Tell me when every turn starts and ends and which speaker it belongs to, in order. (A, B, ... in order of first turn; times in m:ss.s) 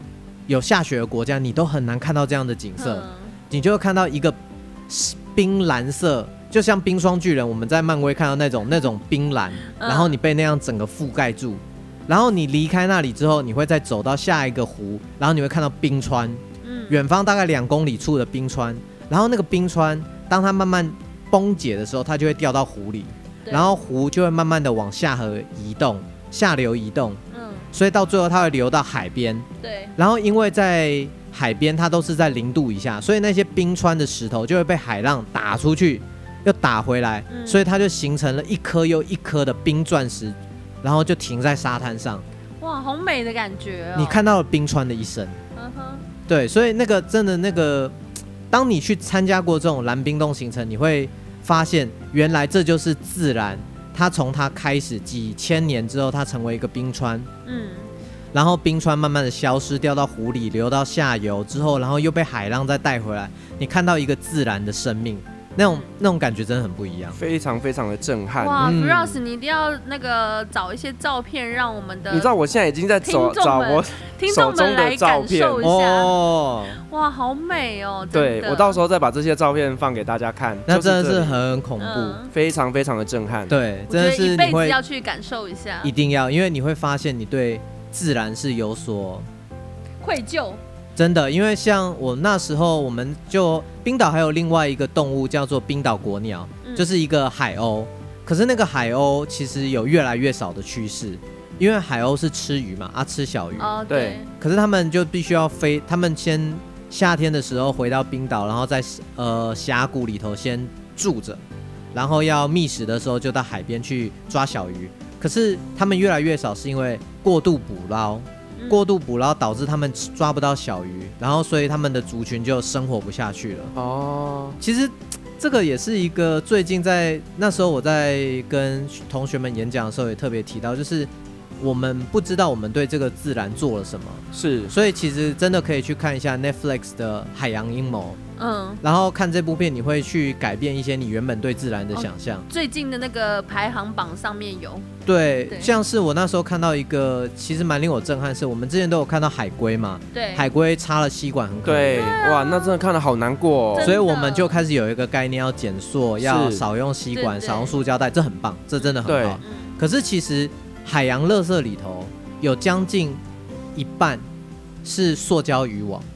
0:00.5-0:04.4 A
0:02.8-0:03.3 B
0:04.9-0:27.2 A
0:09.7-0:10.1 B
0:16.6-0:17.0 B
0:23.4-0:23.7 B
0:27.3-0:27.7 B
0:27.7-0:42.2 A
0:29.6-0:29.9 B
0:37.3-0:37.6 B
0:42.6-0:44.2 B
0:44.0-0:45.4 A
0:45.6-0:46.0 B
0:46.3-0:48.0 A
0:48.5-0:57.3 A
0:57.4-0:57.9 B
0:58.3-1:07.2 A
1:07.2-1:08.8 C
1:08.4-1:12.3 B
1:08.6-1:09.2 A
1:12.1-1:15.7 C
1:13.0-1:16.1 B
1:15.6-1:16.8 A
1:16.9-1:18.8 B
1:18.1-1:21.4 C
1:20.7-1:22.2 A
1:21.8-1:22.3 B
1:22.3-1:23.5 C
1:23.5-1:24.8 A
1:23.9-1:25.9 B
1:25.8-1:29.3 A
1:30.0-1:30.6 B
1:31.0-1:43.7 A
1:36.6-1:36.9 B
1:43.6-1:44.3 B
1:43.9-1:44.2 C
1:44.3-1:51.4 A
1:51.9-2:03.7 A
1:58.6-1:58.8 B
2:03.8-2:04.6 C
2:04.6-2:18.2 A
2:14.3-2:14.7 C
2:18.4-2:18.8 B
2:18.8-2:22.5 A
2:21.9-2:24.9 B
2:25.0-2:32.1 A
2:25.5-2:25.7 B
2:30.1-2:30.5 B
2:31.6-2:34.0 C
2:31.9-2:32.7 B
2:33.7-2:34.6 B
2:33.8-2:43.2 A
2:36.2-2:36.6 C
2:37.1-2:37.8 B
2:38.8-2:39.7 B
2:39.0-2:39.4 C
2:43.7-2:44.2 A
2:44.8-2:46.1 A